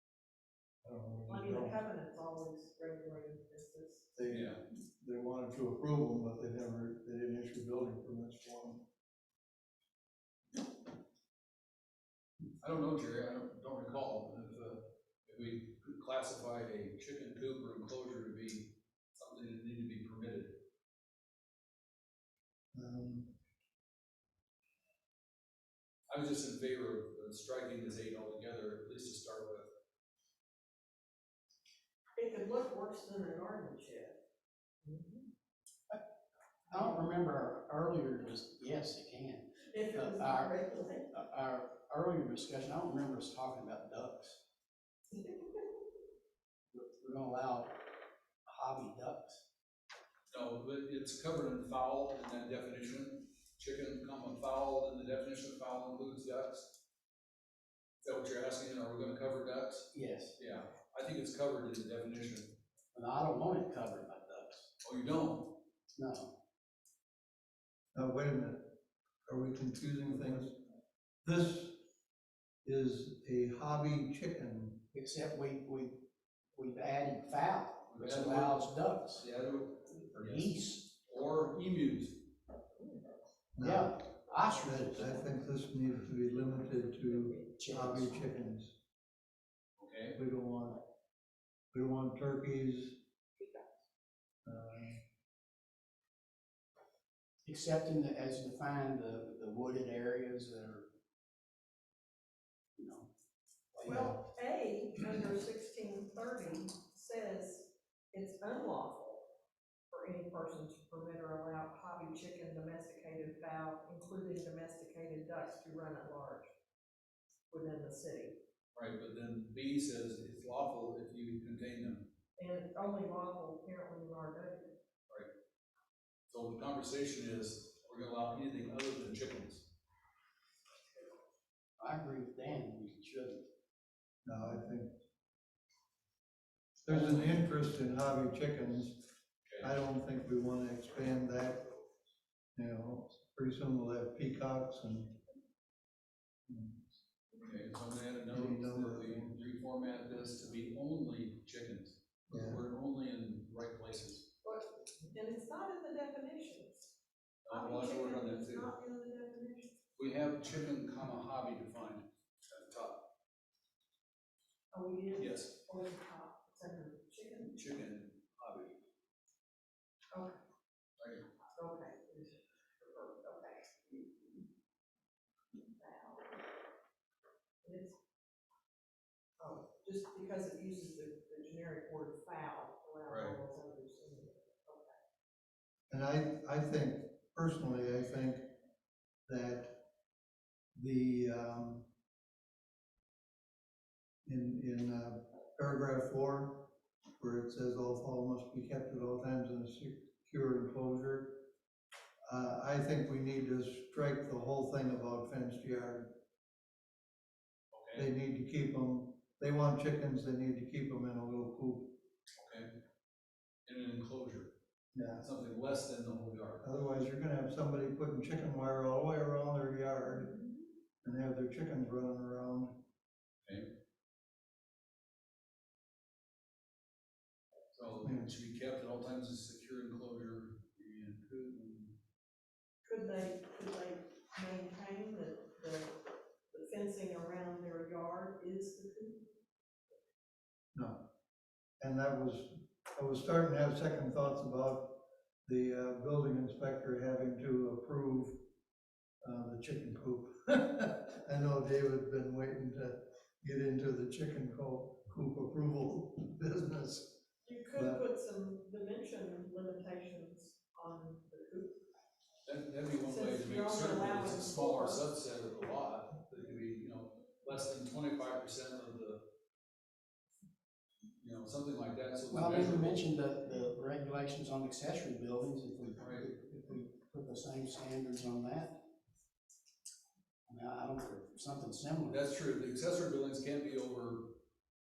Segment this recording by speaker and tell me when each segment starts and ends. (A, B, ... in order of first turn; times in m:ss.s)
0:00.8-0:01.8 A
0:01.3-0:04.1 B
0:04.2-0:08.8 A
0:04.3-0:04.6 C
0:12.6-0:20.6 C
0:22.7-0:23.3 A
0:26.1-0:29.7 C
0:32.2-0:34.2 B
0:34.8-0:35.3 B
0:36.7-0:40.5 D
0:39.7-0:41.1 B
0:41.1-0:44.4 D
0:45.1-0:45.8 B
0:46.7-0:47.8 D
0:48.5-0:49.4 D
0:50.3-0:56.8 C
0:58.0-1:02.6 C
0:59.9-1:00.4 D
1:02.9-1:04.7 D
1:04.8-1:05.6 C
1:06.0-1:06.3 D
1:08.0-1:08.7 A
1:09.3-1:10.6 A
1:11.2-1:11.8 A
1:12.6-1:14.8 A
1:14.9-1:16.0 D
1:16.6-1:19.3 D
1:17.9-1:22.3 C
1:20.1-1:20.9 D
1:23.6-1:28.7 A
1:23.6-1:25.2 D
1:27.6-1:28.3 D
1:29.8-1:30.2 C
1:30.2-1:30.8 A
1:31.7-1:33.0 A
1:34.5-1:35.0 A
1:37.4-1:40.9 D
1:42.8-1:43.1 D
1:43.7-1:44.2 D
1:43.8-1:49.2 B
1:49.9-1:56.5 B
1:57.5-1:58.4 B
1:58.8-2:02.1 C
2:02.4-2:04.8 B
2:06.3-2:09.7 C
2:11.8-2:13.5 D
2:14.2-2:14.9 A
2:16.8-2:19.0 A
2:16.9-2:17.5 C
2:19.5-2:19.7 C
2:19.6-2:21.7 A
2:22.6-2:25.2 A
2:26.5-2:26.9 A
2:27.4-2:34.3 C
2:28.3-2:29.4 A
2:32.3-2:32.6 A
2:34.4-2:37.0 B
2:37.4-2:38.7 C
2:37.5-2:39.8 B
2:40.0-2:43.1 C
2:44.7-2:47.6 B
2:45.2-2:45.6 C
2:47.5-2:48.8 C
2:50.1-2:50.4 B
2:51.0-2:51.3 C
2:51.6-2:54.5 B
2:55.5-2:56.4 B
2:57.6-2:58.0 B
2:59.4-3:05.0 B
3:03.1-3:03.4 C
3:05.9-3:08.4 A
3:09.3-3:09.8 A
3:10.8-3:11.9 A
3:14.2-3:21.4 A
3:22.3-3:26.1 A
3:27.7-3:28.0 C
3:28.0-3:31.9 A
3:32.4-3:32.7 C
3:33.7-3:34.5 C
3:34.9-3:35.2 A
3:35.2-3:36.6 C
3:36.6-3:40.3 A
3:40.1-3:40.7 B
3:41.0-3:42.8 A
3:47.7-3:52.0 C
3:48.0-3:48.3 A
3:52.8-3:56.0 B
3:56.5-3:59.3 B
4:01.8-4:08.4 A
4:09.2-4:17.2 A
4:17.4-4:21.8 B
4:17.7-4:18.0 A
4:22.4-4:29.2 C
4:23.0-4:25.0 B
4:31.2-4:33.1 C
4:32.3-4:38.8 D
4:36.0-4:36.3 C
4:40.5-4:42.2 D
4:42.1-4:44.4 C